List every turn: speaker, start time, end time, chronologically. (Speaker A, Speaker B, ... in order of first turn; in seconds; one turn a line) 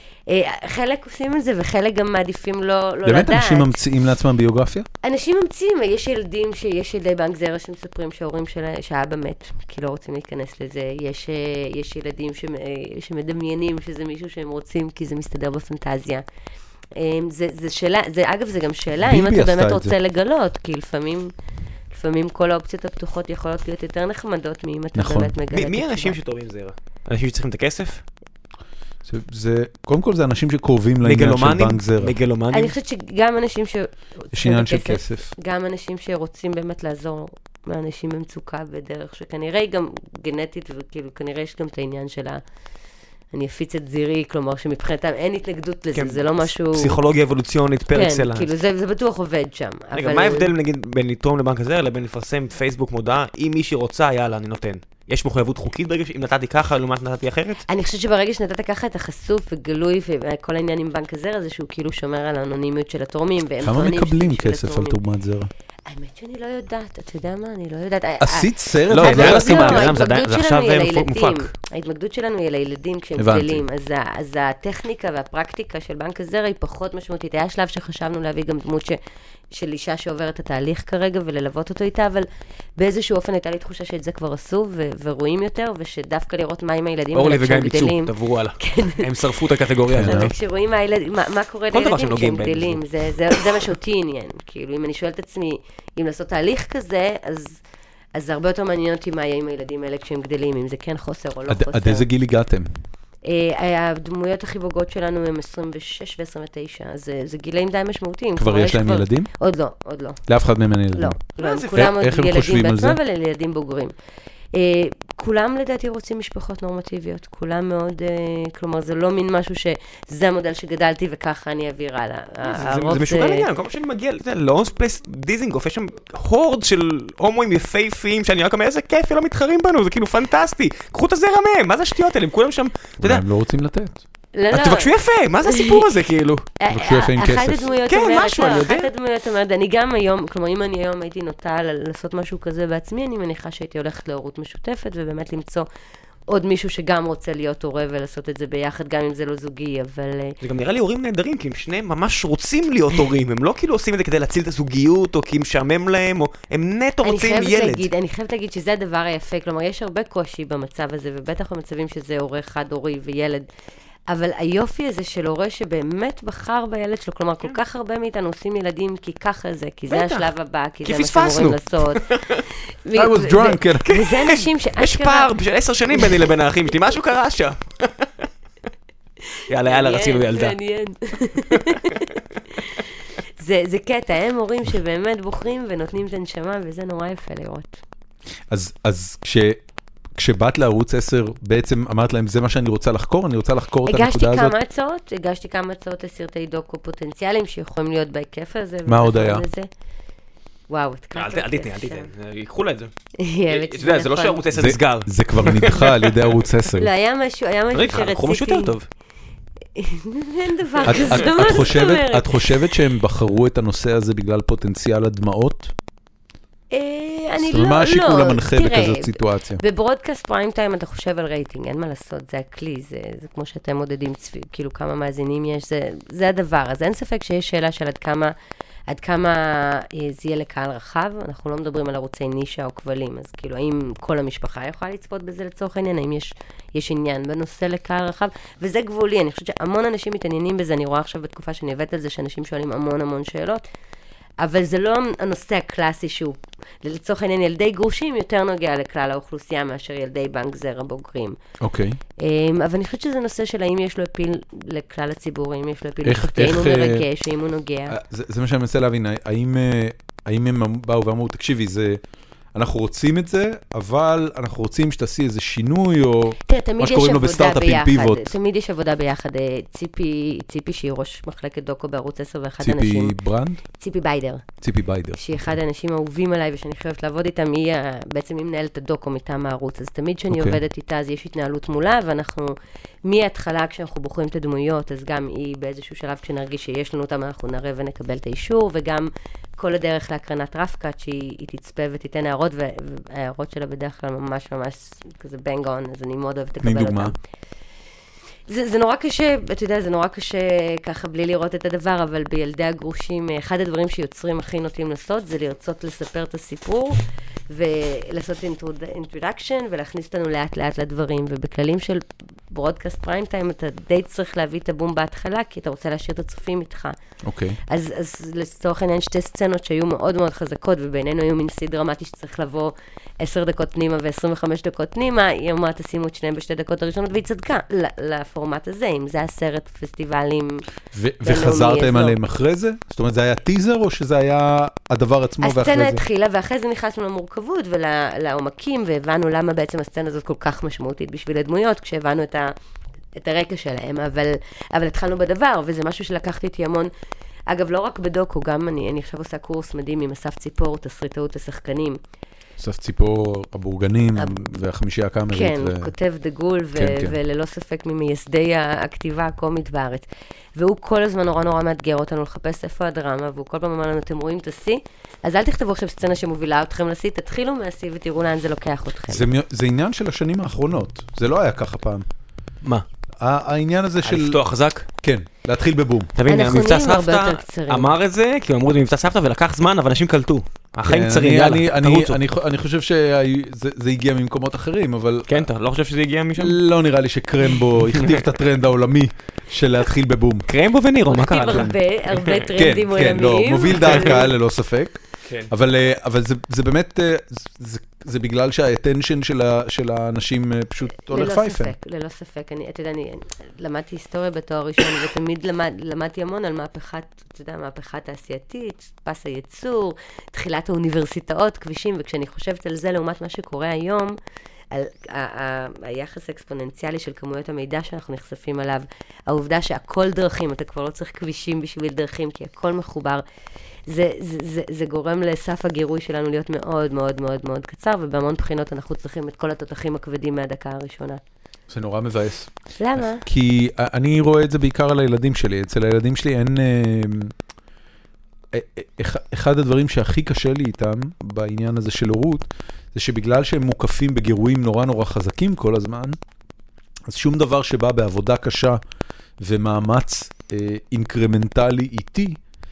Speaker A: 0.3-3.8
Speaker B: 3.0-4.9
Speaker A: 5.0-16.2
Speaker A: 17.0-21.3
Speaker B: 19.0-19.9
Speaker A: 21.9-26.2
Speaker B: 24.9-25.3
Speaker C: 25.5-28.0
Speaker B: 29.1-32.2
Speaker C: 31.0-32.8
Speaker A: 32.5-42.4
Speaker B: 34.3-35.3
Speaker A: 43.3-47.0
Speaker C: 46.0-48.5
Speaker A: 47.9-50.5
Speaker C: 49.9-57.6
Speaker A: 57.7-65.0
Speaker B: 63.6-65.5
Speaker A: 65.9-79.0
Speaker B: 68.2-69.9
Speaker C: 68.9-71.5
Speaker B: 73.2-73.6
Speaker A: 79.5-89.1
Speaker C: 87.1-90.3
Speaker B: 89.9-90.3
Speaker A: 90.0-97.6
Speaker C: 91.7-93.6
Speaker A: 98.2-102.1
Speaker B: 101.5-102.7
Speaker A: 103.2-110.2
Speaker B: 108.4-109.3
Speaker B: 110.3-111.2
Speaker A: 110.9-114.0
Speaker C: 111.4-112.0
Speaker B: 111.7-113.0
Speaker A: 114.5-123.5
Speaker C: 122.4-133.2
Speaker B: 133.0-134.0
Speaker A: 134.3-134.9
Speaker C: 134.5-136.5
Speaker A: 135.4-135.9
Speaker A: 136.6-145.7
Speaker B: 136.7-137.7
Speaker C: 137.9-138.9
Speaker A: 146.3-150.4
Speaker C: 150.4-157.9
Speaker A: 157.0-163.5
Speaker A: 164.1-172.1
Speaker C: 169.9-170.3
Speaker C: 170.8-172.5
Speaker A: 172.8-175.3
Speaker B: 172.9-173.9
Speaker C: 173.9-178.2
Speaker A: 176.0-176.2
Speaker C: 179.5-180.6
Speaker A: 179.6-187.8
Speaker C: 181.6-182.0
Speaker B: 188.5-189.6
Speaker B: 190.2-194.6
Speaker A: 193.9-199.7
Speaker B: 198.9-199.4
Speaker A: 200.7-202.1
Speaker C: 201.2-202.9
Speaker A: 203.2-204.4
Speaker C: 203.5-206.5
Speaker B: 204.5-206.9
Speaker A: 206.8-208.8
Speaker C: 207.7-208.9
Speaker A: 209.8-212.8
Speaker B: 210.9-215.7
Speaker C: 210.9-211.2
Speaker A: 216.7-228.3
Speaker B: 217.4-219.6
Speaker A: 228.9-243.7
Speaker A: 244.4-251.4
Speaker B: 251.6-252.0
Speaker A: 252.2-258.0
Speaker B: 256.0-257.1
Speaker B: 257.9-262.0
Speaker B: 262.5-268.4
Speaker A: 266.5-273.1
Speaker B: 272.6-273.6
Speaker A: 273.8-274.4
Speaker B: 274.6-275.2
Speaker A: 275.2-297.2
Speaker B: 280.3-280.6
Speaker B: 296.6-297.1
Speaker A: 298.5-317.0
Speaker B: 317.2-317.6
Speaker A: 317.7-330.6
Speaker B: 330.9-336.0
Speaker A: 331.2-332.2
Speaker A: 335.4-342.6
Speaker A: 343.2-346.9
Speaker A: 347.5-352.0
Speaker B: 352.6-355.9
Speaker A: 354.2-354.4
Speaker A: 355.3-369.3
Speaker B: 356.8-357.2
Speaker B: 369.1-372.1
Speaker B: 373.2-374.4
Speaker C: 374.0-374.9
Speaker B: 375.0-376.1
Speaker C: 376.2-382.2
Speaker A: 376.3-377.9
Speaker B: 380.9-385.5
Speaker C: 385.3-386.6
Speaker B: 386.4-390.5
Speaker C: 387.9-388.2
Speaker C: 390.5-392.5
Speaker A: 391.1-394.3
Speaker B: 391.5-391.8
Speaker B: 392.6-401.8
Speaker C: 393.8-394.2
Speaker A: 401.1-414.2
Speaker A: 414.7-423.2
Speaker A: 423.9-431.2
Speaker B: 431.7-437.3
Speaker A: 432.8-433.2
Speaker B: 438.5-446.2
Speaker B: 447.1-448.8
Speaker B: 449.4-452.4